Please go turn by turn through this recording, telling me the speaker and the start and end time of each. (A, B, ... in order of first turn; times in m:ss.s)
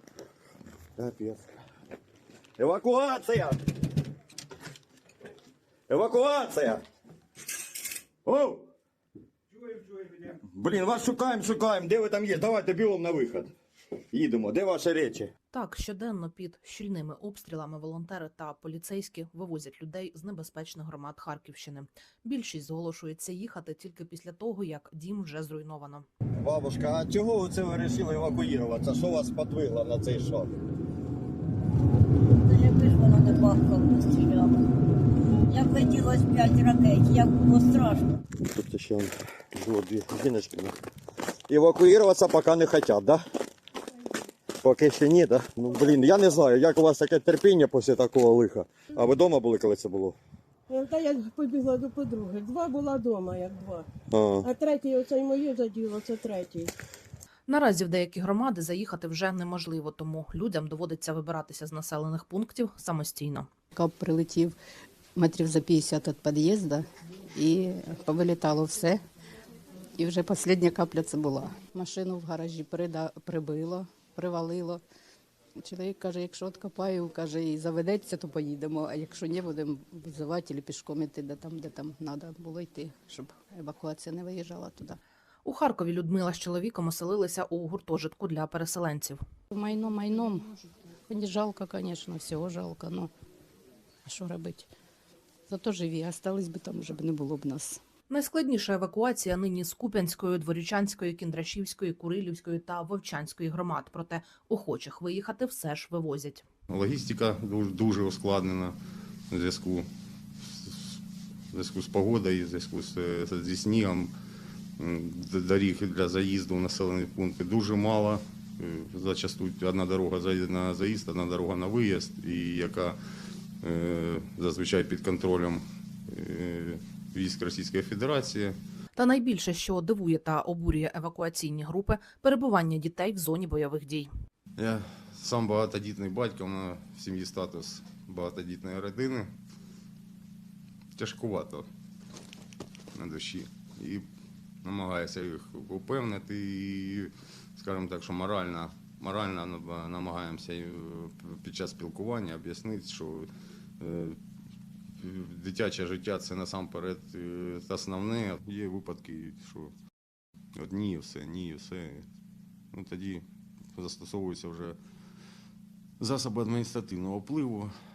0:01.0-0:01.5 A
0:02.6-0:03.6 A
0:05.9-0:06.8 A
0:08.2-0:08.6 A
0:10.1-0:13.5 A
0:14.1-0:15.3 A
0:15.5-0:26.1 B
0:26.4-0:30.5 A
0:32.4-0:34.6 C
0:35.5-0:38.2 C
0:38.5-0:40.8 A
0:41.5-0:43.2 A
0:44.6-0:50.2 A
0:50.7-0:53.8 D
0:54.1-0:54.5 A
0:54.4-0:56.7 D
0:57.5-1:03.5 B
1:03.8-1:04.6 E
1:05.2-1:09.0 E
1:10.0-1:14.8 E
1:15.6-1:25.0 E
1:25.4-1:29.2 B
1:29.5-1:30.5 E
1:31.1-1:33.1 E
1:34.1-1:34.7 E
1:35.5-1:37.8 E
1:38.1-1:46.4 B
1:46.7-1:48.8 F
1:49.3-1:49.9 F
1:50.4-1:51.0 F
1:51.5-1:54.1 F
1:54.8-2:03.0 F
2:03.6-2:08.6 F
2:09.0-2:14.1 B
2:14.6-2:19.3 F
2:21.0-2:21.7 F
2:22.9-2:24.1 F
2:24.6-2:33.3 F
2:33.8-2:34.2 F
2:35.0-2:39.7 F
2:40.6-2:42.1 F
2:42.7-2:44.8 F
2:46.0-2:47.7 F